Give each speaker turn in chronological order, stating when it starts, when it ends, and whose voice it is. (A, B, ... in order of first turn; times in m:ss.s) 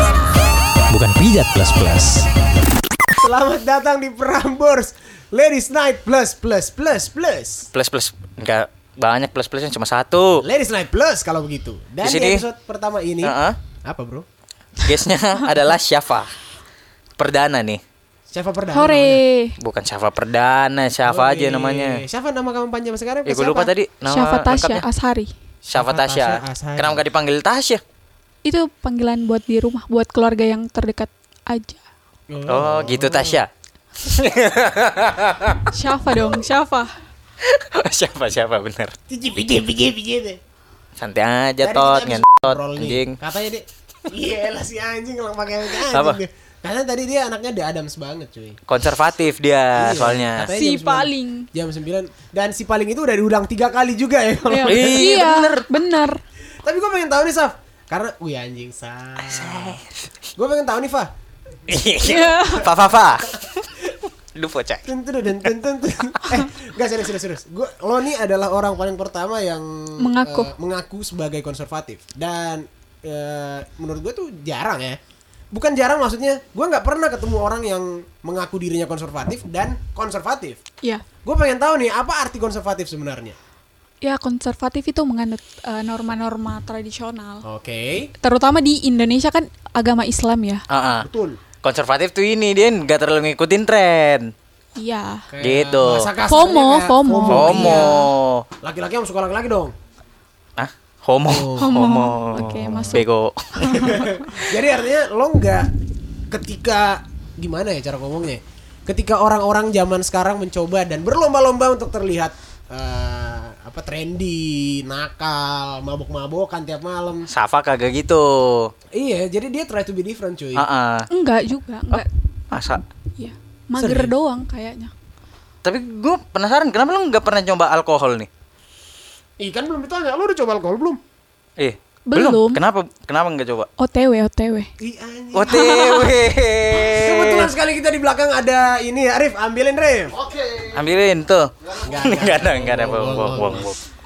0:00.9-0:02.3 A
0:03.2-0:07.7 B
0:07.7-0:10.4 A
0:10.4-0:14.2 B
0:12.0-0:12.4 A
0:13.2-0:13.6 A
0:14.8-0:16.3 A
0:17.2-0:17.8 A
0:18.3-0:19.2 B
0:18.7-0:19.6 C
0:19.6-0:22.0 A
0:21.0-0:23.7 B
0:23.3-0:24.8 A
0:24.1-0:25.3 C
0:25.7-0:27.0 B
0:25.7-0:27.8 A
0:28.4-0:31.8 C
0:32.3-0:33.4 B
0:32.5-0:33.5 A
0:34.0-0:35.6 A
0:35.7-0:36.9 C
0:37.4-0:38.9 A
0:39.1-0:40.4 B
0:41.0-0:43.2 A
0:41.6-0:48.6 B
0:45.8-0:46.2 A
0:48.7-0:50.5 A
0:49.7-0:55.1 B
0:50.5-0:51.5 C
0:54.5-0:56.2 C
0:54.6-0:55.7 A
0:56.6-0:59.8 B
0:59.2-1:00.1 A
1:00.4-1:01.1 B
1:01.7-1:03.8 A
1:02.0-1:02.6 C
1:02.2-1:04.0 B
1:04.4-1:04.9 A
1:04.8-1:15.0 B
1:10.0-1:10.5 C
1:15.5-1:20.6 B
1:21.2-1:23.4 B
1:24.0-1:27.4 C
1:27.4-1:28.1 B
1:28.2-1:30.6 C
1:30.7-1:31.1 A
1:31.0-1:31.4 B
1:31.6-1:34.3 A
1:34.8-1:35.3 C
1:35.3-1:38.0 B
1:35.4-1:36.1 A
1:36.3-1:38.1 C
1:37.3-1:38.4 A
1:38.6-1:39.7 B
1:40.6-1:44.0 A
1:41.2-1:41.8 B
1:41.6-1:43.1 C
1:42.3-1:43.0 B
1:43.6-1:44.3 C
1:43.6-1:45.7 B
1:46.3-1:57.3 B
1:57.3-1:58.7 A
1:59.0-2:00.7 B
2:00.6-2:01.1 A
2:01.1-2:02.1 C
2:01.9-2:02.8 A
2:03.2-2:04.9 C
2:03.8-2:04.2 B
2:05.6-2:08.3 A
2:09.4-2:11.0 B
2:11.6-2:13.7 A
2:12.1-2:12.6 C
2:13.8-2:14.7 C
2:14.8-2:16.1 B
2:15.3-2:17.5 A
2:15.5-2:16.1 C
2:16.8-2:20.2 B
2:20.5-2:23.8 A
2:21.8-2:23.7 B